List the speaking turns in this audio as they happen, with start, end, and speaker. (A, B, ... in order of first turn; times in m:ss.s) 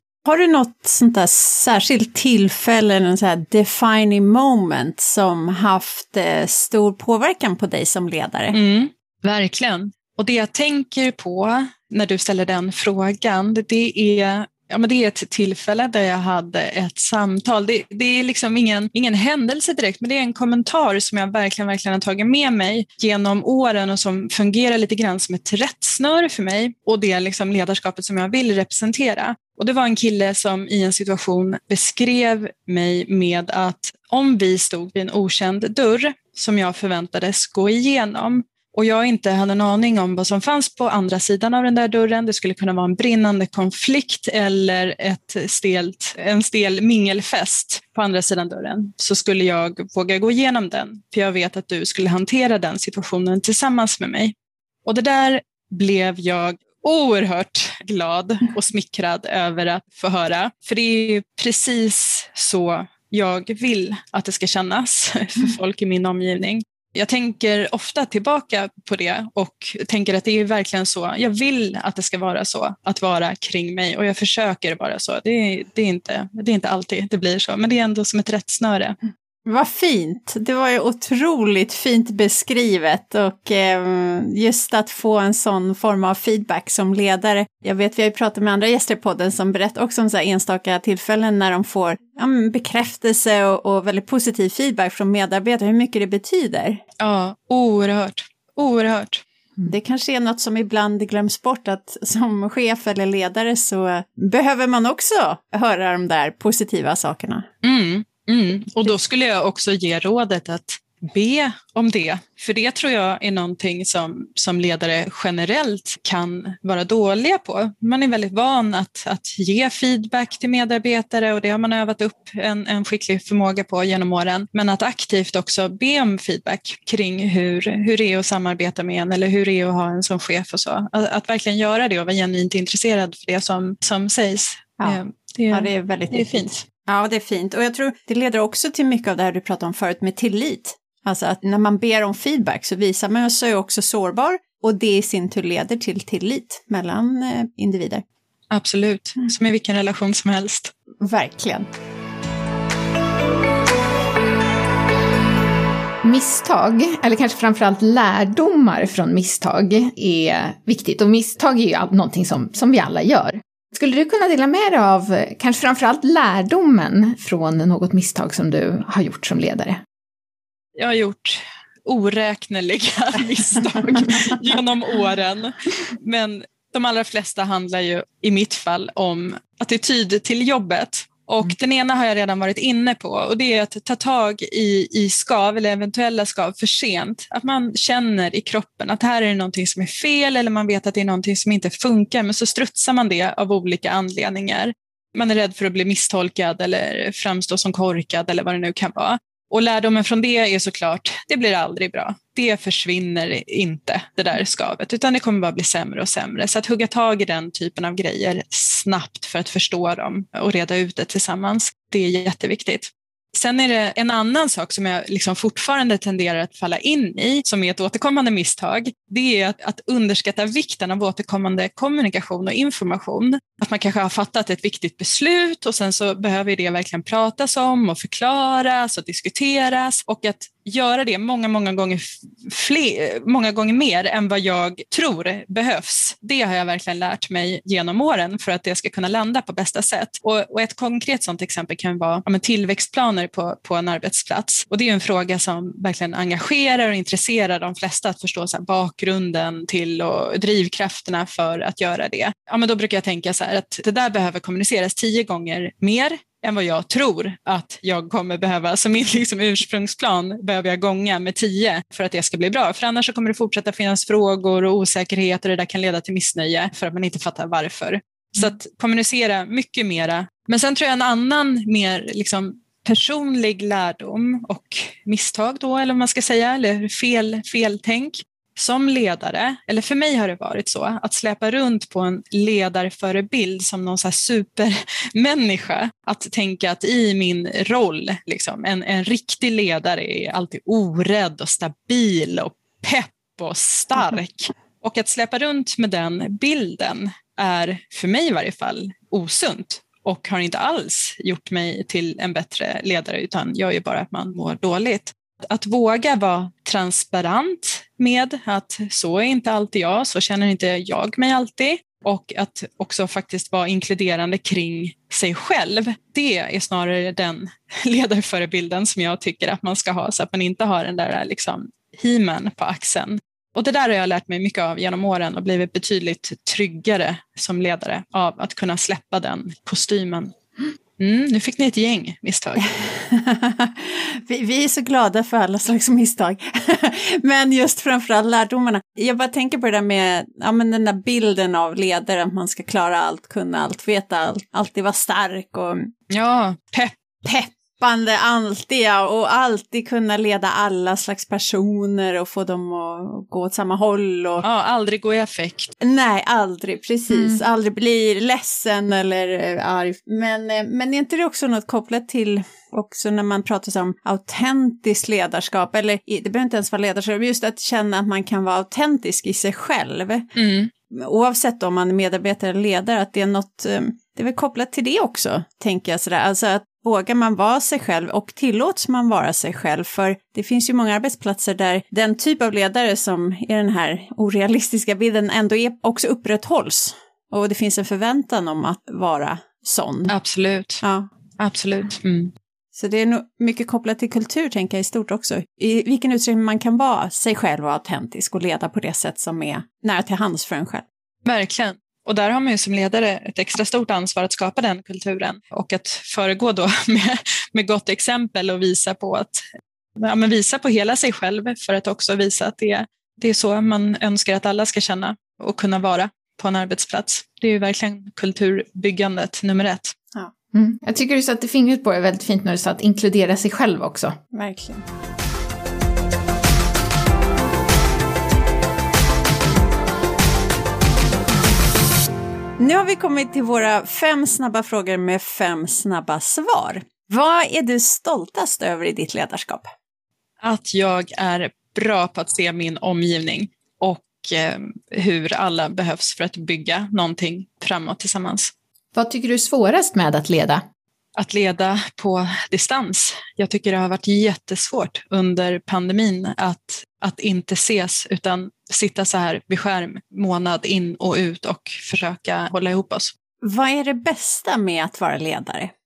0:00.2-0:08.6 A
0:08.5-1:19.0 B
1:19.4-1:36.8 A
1:37.0-1:39.2 B
1:39.6-1:47.5 A
1:47.6-2:16.6 B
2:14.8-2:28.0 A
2:28.5-2:30.7 B
2:31.0-2:31.7 A
2:36.0-2:49.8 C
2:50.8-5:30.3 B
5:31.0-5:32.7 B
5:32.6-5:45.9 A
5:46.1-5:46.9 B
5:47.2-5:54.4 A
5:54.4-5:55.7 B
5:55.8-6:10.3 A
6:10.4-6:10.7 B
6:10.9-6:30.1 A
6:30.1-6:30.8 B
6:30.8-6:31.1 A
6:31.4-6:32.3 B
6:32.7-6:40.8 A
6:41.2-6:49.4 B
6:50.0-7:00.0 B
7:00.5-7:04.2 C
7:04.3-7:04.8 A
7:12.6-7:19.7 A
7:20.4-7:28.5 B
7:29.0-7:30.6 C
7:31.2-7:43.1 B
7:43.4-7:45.7 A